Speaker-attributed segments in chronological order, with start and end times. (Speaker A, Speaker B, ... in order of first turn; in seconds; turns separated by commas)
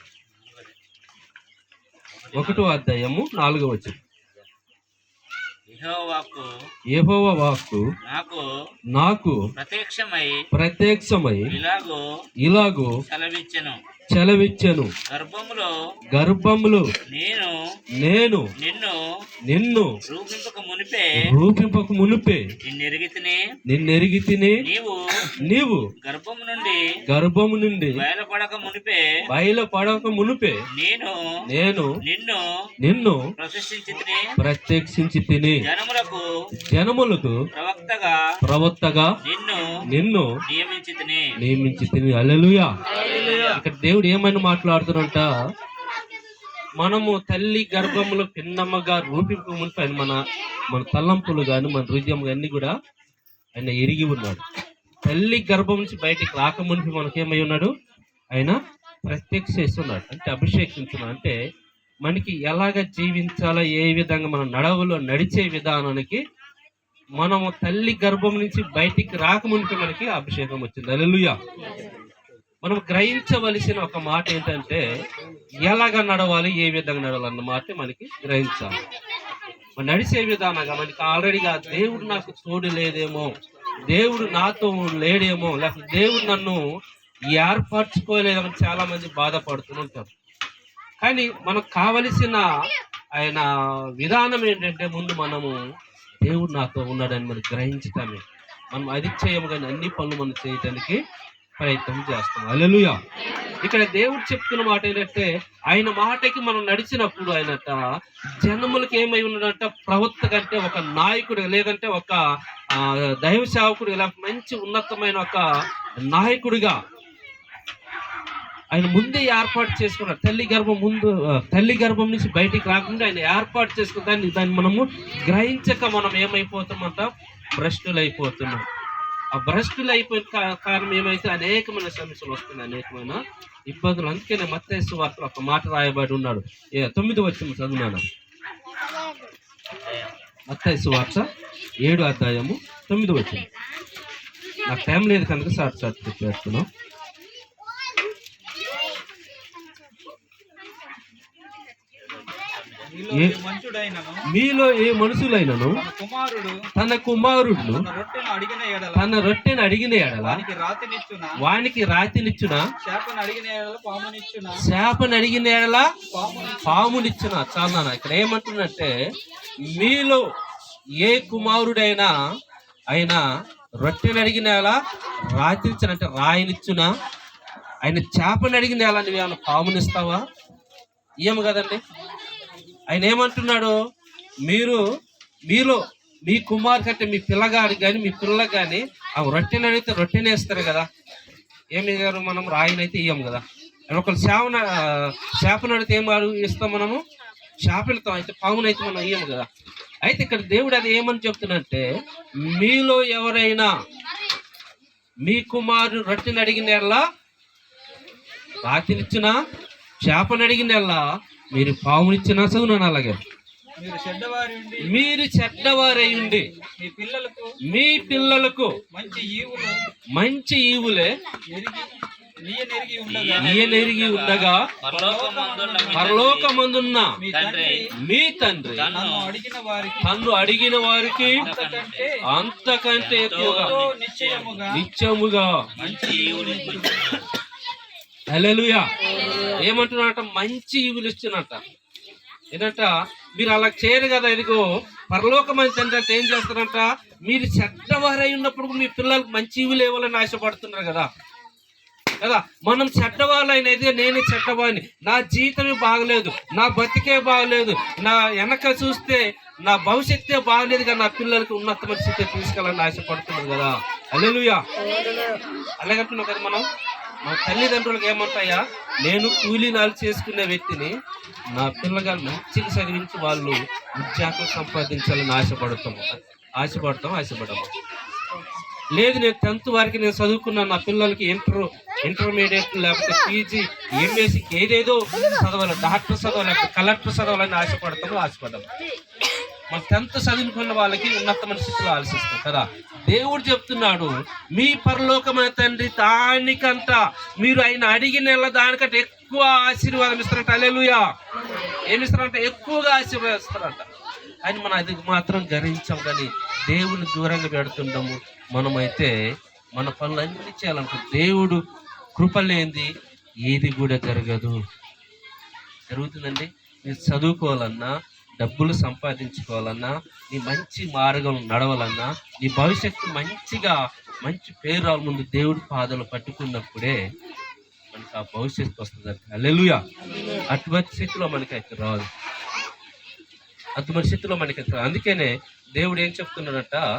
Speaker A: 0.3-0.7, Speaker A: 2.1-2.8, Speaker B: 2.3-4.0, Speaker A: 5.7-6.5, Speaker B: 6.9-7.8, Speaker A: 8.1-8.4, Speaker B: 8.9-9.4, Speaker A: 9.6-10.4, Speaker B: 10.5-11.5, Speaker A: 11.5-12.0, Speaker B: 12.4-12.9, Speaker A: 13.1-13.8, Speaker B: 14.1-14.9, Speaker A: 15.1-15.7, Speaker B: 16.1-16.8, Speaker A: 17.1-17.5, Speaker B: 18.0-18.5, Speaker A: 18.6-19.0, Speaker B: 19.5-19.9, Speaker A: 20.1-21.1, Speaker B: 21.2-22.4, Speaker A: 22.7-23.4, Speaker B: 23.7-24.6, Speaker A: 24.6-25.0, Speaker B: 25.4-25.8, Speaker A: 26.0-26.8, Speaker B: 27.1-28.0, Speaker A: 28.0-29.0, Speaker B: 29.3-30.5, Speaker A: 30.8-31.1, Speaker B: 31.5-31.9, Speaker A: 32.0-32.4, Speaker B: 32.8-33.2, Speaker A: 33.4-34.3, Speaker B: 34.4-35.6, Speaker A: 35.6-36.2, Speaker B: 36.5-37.4, Speaker A: 37.5-38.2, Speaker B: 38.4-39.1, Speaker A: 39.2-39.7, Speaker B: 39.9-40.3, Speaker A: 40.5-41.2, Speaker B: 41.4-42.7, Speaker A: 42.9-43.6, Speaker B: 43.3-45.3, Speaker B: 46.8-50.2, Speaker B: 50.7-52.7, Speaker B: 53.5-54.4, Speaker B: 55.0-57.7, Speaker B: 59.1-61.3, Speaker B: 62.0-66.2, Speaker B: 67.2-71.3, Speaker B: 72.6-74.8, Speaker B: 75.6-78.8, Speaker B: 79.8-83.3, Speaker B: 83.9-86.6, Speaker B: 87.3-90.1, Speaker B: 91.0-92.5, Speaker B: 93.2-93.5, Speaker B: 94.0-95.6, Speaker B: 96.2-98.2, Speaker B: 98.7-101.0, Speaker B: 101.6-102.9, Speaker B: 103.6-107.8, Speaker B: 108.4-112.2, Speaker B: 112.8-115.4, Speaker B: 116.0-116.8, Speaker B: 118.7-128.7, Speaker B: 129.3-138.0, Speaker B: 140.5-141.3, Speaker B: 141.8-143.5, Speaker B: 144.7-146.7, Speaker C: 152.8-154.2, Speaker B: 154.3-155.8, Speaker C: 155.7-156.6, Speaker B: 156.7-157.8, Speaker C: 157.6-159.1, Speaker B: 158.9-160.4, Speaker C: 160.2-161.3, Speaker B: 161.4-162.6, Speaker C: 162.8-164.6, Speaker B: 164.6-165.9, Speaker C: 166.1-166.9, Speaker B: 166.6-168.9, Speaker B: 169.7-170.2, Speaker B: 171.0-172.1, Speaker B: 172.9-173.2, Speaker B: 173.8-174.8, Speaker B: 175.4-176.9, Speaker B: 177.8-180.2, Speaker B: 181.2-181.8, Speaker B: 182.9-183.7, Speaker B: 184.5-184.8, Speaker B: 185.5-190.8, Speaker B: 191.8-197.0, Speaker B: 197.7-199.4, Speaker B: 200.0-201.8, Speaker B: 202.5-203.7, Speaker B: 205.2-207.0, Speaker B: 208.7-209.3, Speaker B: 210.0-211.0, Speaker B: 211.5-213.2, Speaker C: 213.8-215.0, Speaker B: 214.8-216.4, Speaker C: 216.8-217.5, Speaker B: 217.7-218.7, Speaker C: 218.9-219.8, Speaker B: 220.2-221.1, Speaker C: 221.5-221.9, Speaker C: 222.4-223.5, Speaker A: 223.1-226.5, Speaker B: 223.4-224.7, Speaker C: 224.7-226.2, Speaker B: 225.9-227.1, Speaker C: 227.2-227.8, Speaker A: 227.3-227.8, Speaker B: 228.1-228.9, Speaker A: 228.7-229.3, Speaker C: 228.9-230.1, Speaker B: 230.0-231.4, Speaker A: 231.2-232.1, Speaker C: 231.4-232.1, Speaker B: 232.3-233.7, Speaker A: 232.9-234.6, Speaker C: 233.4-234.8, Speaker B: 234.7-235.7, Speaker A: 235.8-237.3, Speaker C: 235.8-237.2, Speaker B: 238.3-238.8, Speaker B: 239.4-241.6, Speaker B: 242.5-251.1, Speaker B: 252.2-264.6, Speaker B: 265.8-266.6, Speaker B: 267.3-270.9, Speaker B: 271.5-277.7, Speaker B: 278.9-288.6, Speaker B: 289.7-301.0, Speaker B: 301.9-303.8, Speaker B: 304.5-309.1, Speaker B: 309.8-311.6, Speaker B: 312.2-312.9, Speaker B: 313.4-314.6, Speaker B: 315.9-327.0, Speaker B: 327.9-329.8, Speaker B: 330.5-332.1, Speaker B: 333.8-336.8